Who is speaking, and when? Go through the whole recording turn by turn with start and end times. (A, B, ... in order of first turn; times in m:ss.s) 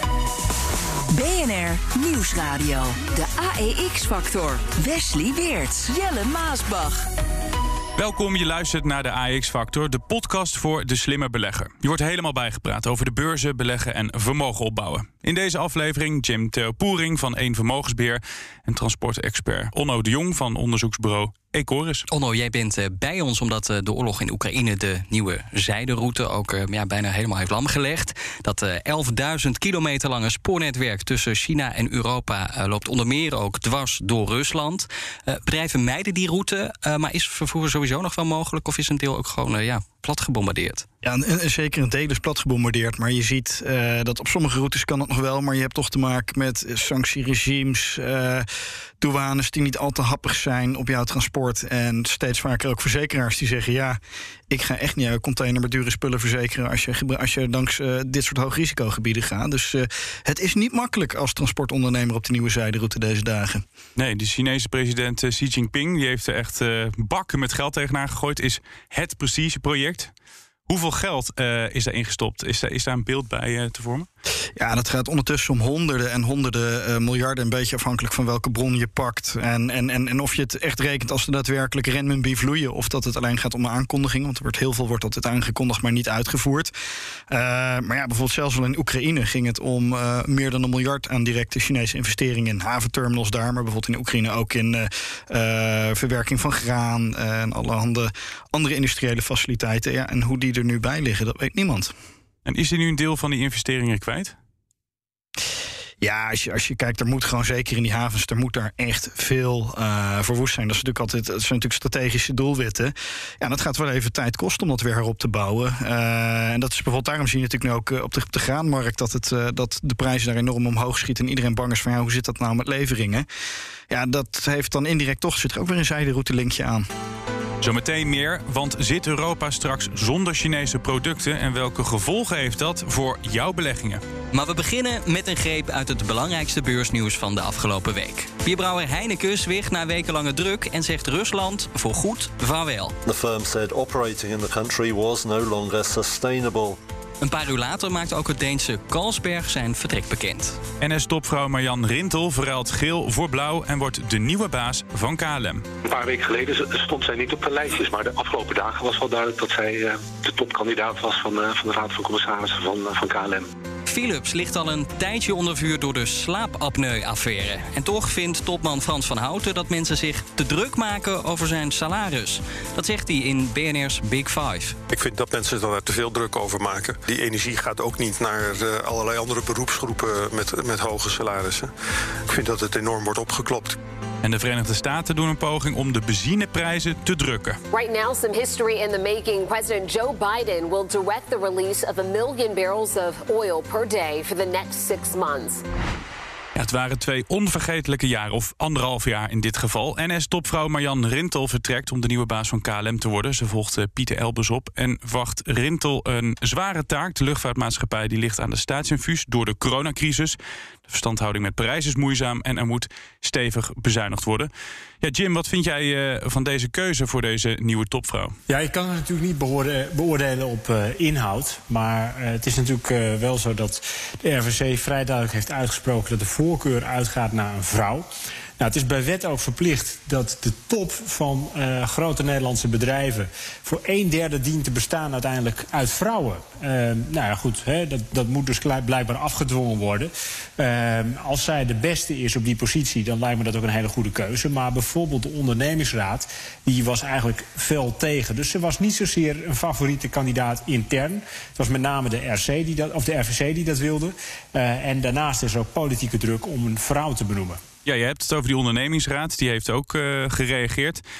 0:01.1-0:07.1 A
0:08.0-0:22.0 B
0:22.1-0:40.8 C
0:41.0-0:48.5 D
0:49.0-0:54.0 D
0:54.5-1:03.6 D
1:04.0-1:10.1 B
1:10.7-1:14.1 B
1:14.6-1:26.7 D
1:27.3-1:41.9 D
1:42.4-1:44.3 B
1:46.0-2:03.2 D
2:03.9-2:06.9 D
2:07.6-2:14.0 B
2:14.3-2:23.0 C
2:23.0-2:26.8 E
2:27.2-2:30.6 C
2:30.8-2:35.6 B
2:35.8-2:43.5 F
2:43.9-2:54.8 C
2:54.9-3:01.7 G
3:02.2-3:03.8 G
3:04.2-3:07.6 B
3:07.7-3:15.6 H
3:16.5-3:30.4 B
3:30.9-3:34.5 B
3:35.0-3:38.3 B
3:38.5-3:48.0 I
3:48.6-4:17.6 I
4:17.8-4:21.0 B